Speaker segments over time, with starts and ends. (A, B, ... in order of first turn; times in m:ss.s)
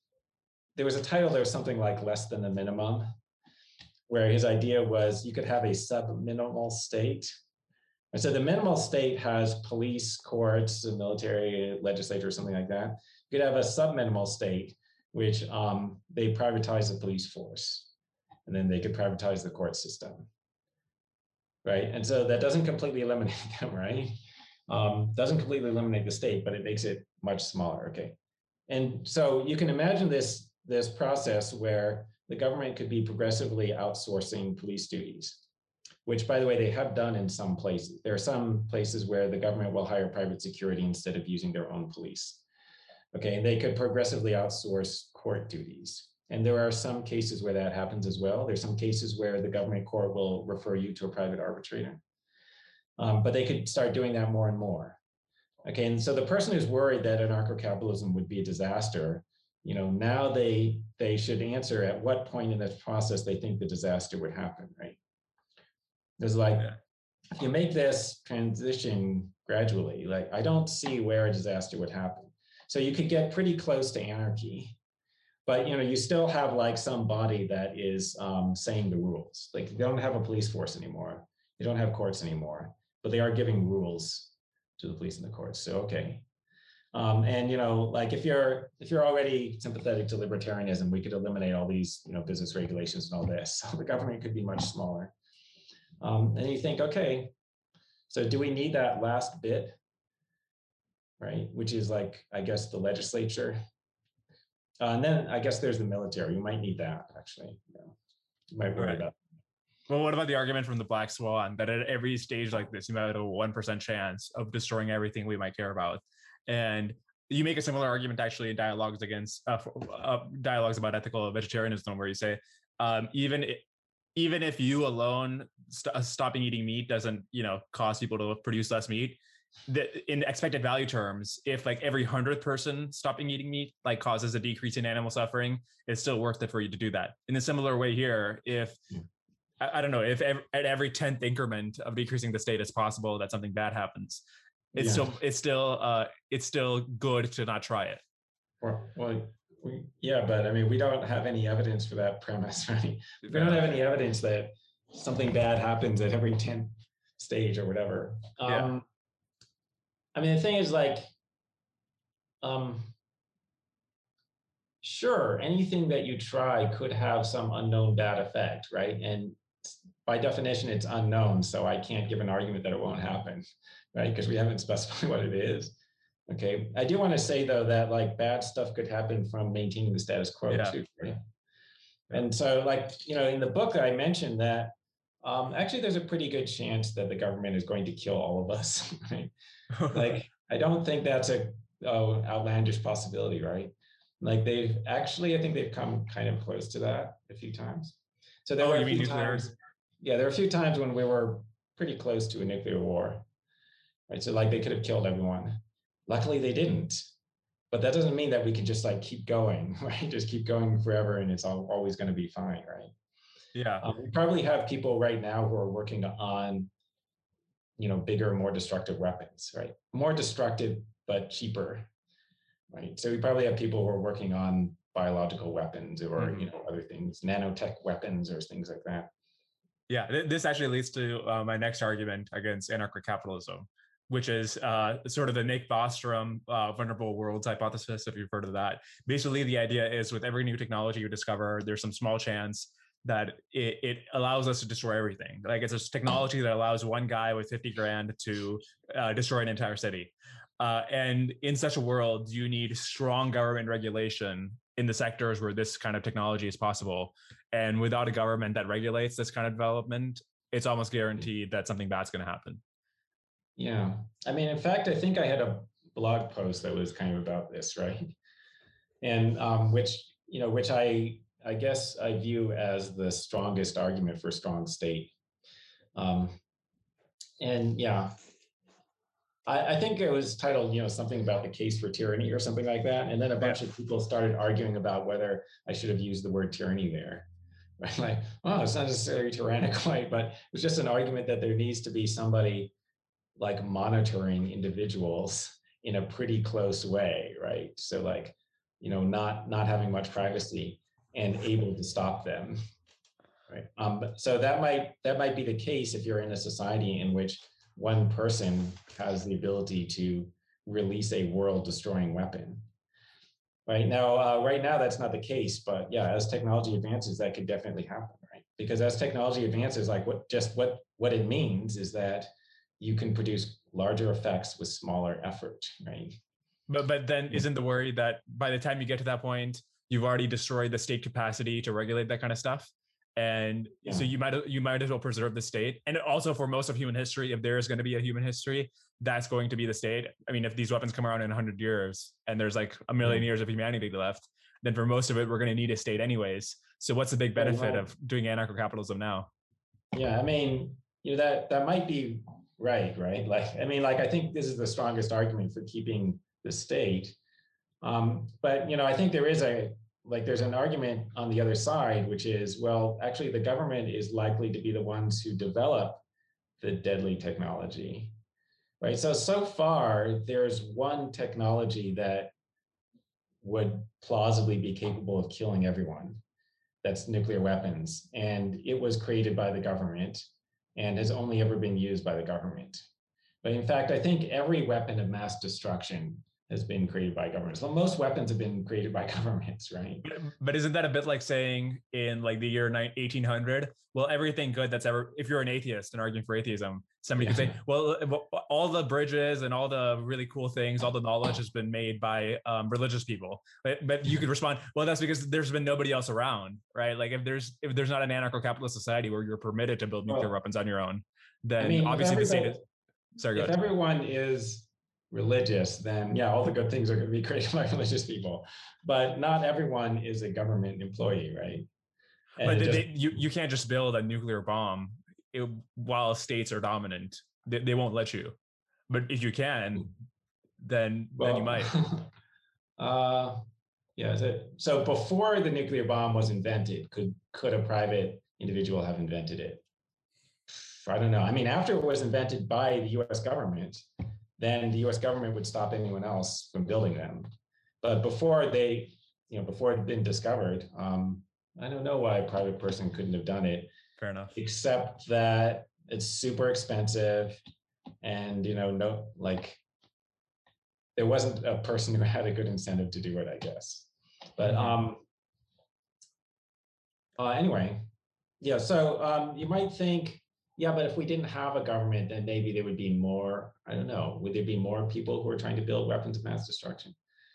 0:00.8-0:03.1 A
0:04.1-0:07.3 A
0:08.1-0:17.9 A
0:18.4-0:20.3 A
0:21.6-0:28.2 A
0:28.7-0:35.4 A
0:36.0-0:42.4 A
0:43.1-0:52.0 A
0:53.0-0:55.0 A
0:55.6-1:05.0 A
1:06.2-1:06.7 A
1:07.3-1:14.8 A
1:15.4-1:26.2 A
1:26.9-1:35.1 A
1:36.0-1:37.3 A
1:38.1-1:39.8 A
1:41.2-1:43.6 A
1:44.8-1:47.9 A
1:48.5-1:49.1 A
1:48.8-1:49.0 B
1:49.9-2:03.6 B
2:04.2-2:18.8 B
2:19.6-2:24.2 B
2:24.7-2:25.1 A
2:24.7-2:28.0 B
2:28.6-2:38.8 A
2:33.2-2:33.7 B
2:40.1-2:41.1 A
2:42.4-2:42.9 A
2:44.8-2:55.8 A
2:56.3-3:01.2 A
3:00.5-3:00.8 B
3:02.1-3:09.3 A
3:09.7-3:10.2 B
3:09.9-3:23.2 A
3:18.6-3:19.5 B
3:24.1-3:27.0 A
3:27.7-3:32.9 A
3:33.5-3:33.9 B
3:33.8-3:36.7 A
3:37.8-3:41.9 A
3:42.7-3:49.1 A
3:46.2-3:46.5 B
3:49.9-4:22.6 B
4:23.6-4:28.1 A
4:29.0-4:35.1 A
4:36.0-4:36.4 A
4:37.4-4:38.1 A
4:39.5-4:47.3 A
4:47.8-4:52.7 A
4:53.4-5:02.6 A
5:03.5-5:12.6 A
5:13.6-5:26.2 A
5:26.7-5:49.3 B
5:47.4-5:47.8 A
5:49.9-5:57.2 A
5:57.8-6:06.0 A
6:06.6-6:08.1 A
6:08.8-6:12.3 A
6:13.4-6:16.2 A
6:16.8-6:22.8 A
6:23.4-6:30.0 A
6:30.0-6:52.6 B
6:37.2-6:37.5 A
6:51.6-6:52.6 A
6:53.2-6:53.6 B
6:53.3-7:01.7 A
7:02.4-7:02.9 A
7:02.4-7:08.4 B
7:08.9-7:09.9 B
7:10.6-7:11.8 B
7:11.2-7:12.1 A
7:12.8-7:13.4 A
7:14.0-7:19.6 A
7:20.8-7:23.8 A
7:24.4-7:27.3 A
7:27.8-7:33.7 A
7:34.0-7:34.3 B
7:34.3-7:37.4 A
7:38.0-7:39.6 A
7:41.0-7:45.0 A
7:44.4-7:44.7 B
7:47.2-7:47.9 A
7:48.4-7:57.0 A